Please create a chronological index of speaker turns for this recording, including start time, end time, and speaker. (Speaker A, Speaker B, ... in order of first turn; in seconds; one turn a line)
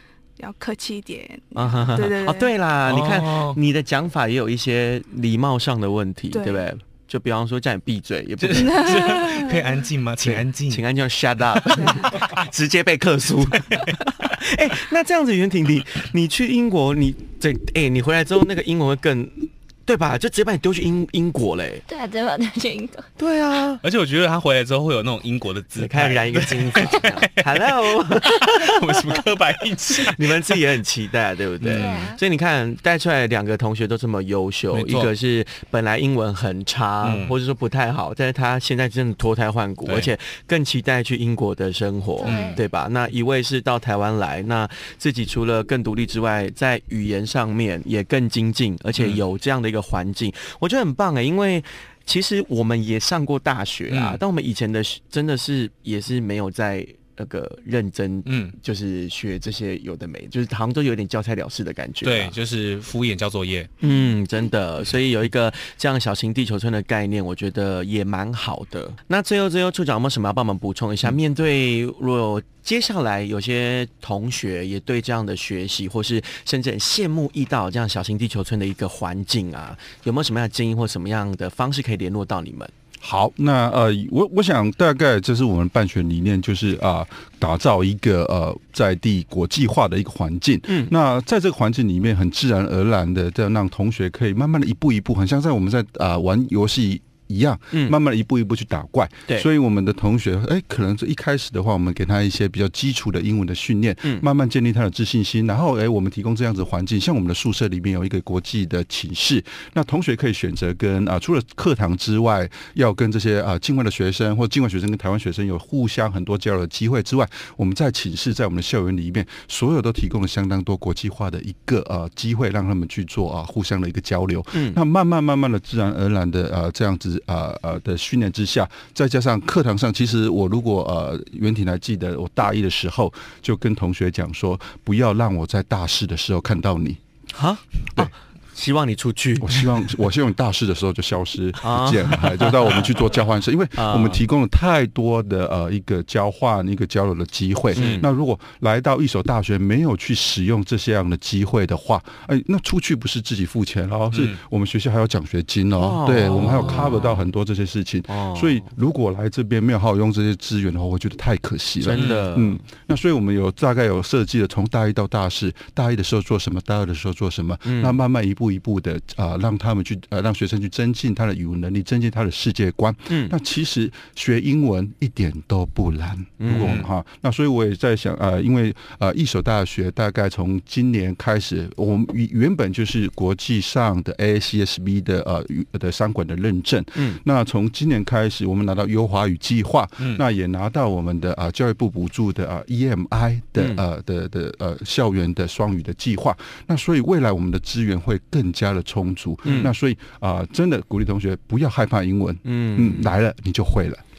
Speaker A: 0.4-2.5
Speaker B: 1.6-9.4
Speaker C: 2.9-3.6
Speaker A: 6.3-6.7
Speaker C: 8.4-10.9
Speaker A: 8.6-9.7
Speaker B: 10.2-21.8
Speaker C: 11.6-12.3
Speaker A: 11.7-12.2
Speaker C: 13.5-14.4
Speaker D: 21.9-23.1
Speaker B: 23.2-23.8
Speaker C: 23.8-30.6
Speaker B: 25.8-29.3
Speaker B: 30.0-62.4
Speaker C: 31.6-32.1
Speaker D: 31.7-32.2
Speaker C: 34.7-35.1
Speaker C: 37.0-37.4
Speaker C: 39.9-40.1
Speaker D: 42.2-42.6
Speaker C: 42.3-42.6
Speaker C: 49.0-49.2
Speaker C: 53.9-54.2
Speaker C: 58.2-58.5
Speaker C: 62.0-63.7
Speaker B: 63.8-82.7
Speaker E: 83.0-137.0
Speaker B: 90.7-90.9
Speaker B: 124.5-124.8
Speaker B: 137.3-139.7
Speaker E: 139.4-204.0
Speaker B: 141.6-142.9
Speaker B: 143.8-144.2
Speaker C: 147.8-148.1
Speaker B: 147.8-148.1
Speaker C: 154.1-154.4
Speaker B: 155.8-157.2
Speaker B: 158.1-158.7
Speaker B: 161.8-162.6
Speaker C: 161.9-162.3
Speaker B: 167.7-168.0
Speaker B: 173.1-173.3
Speaker B: 176.4-176.8
Speaker B: 199.4-199.7
Speaker B: 202.4-203.1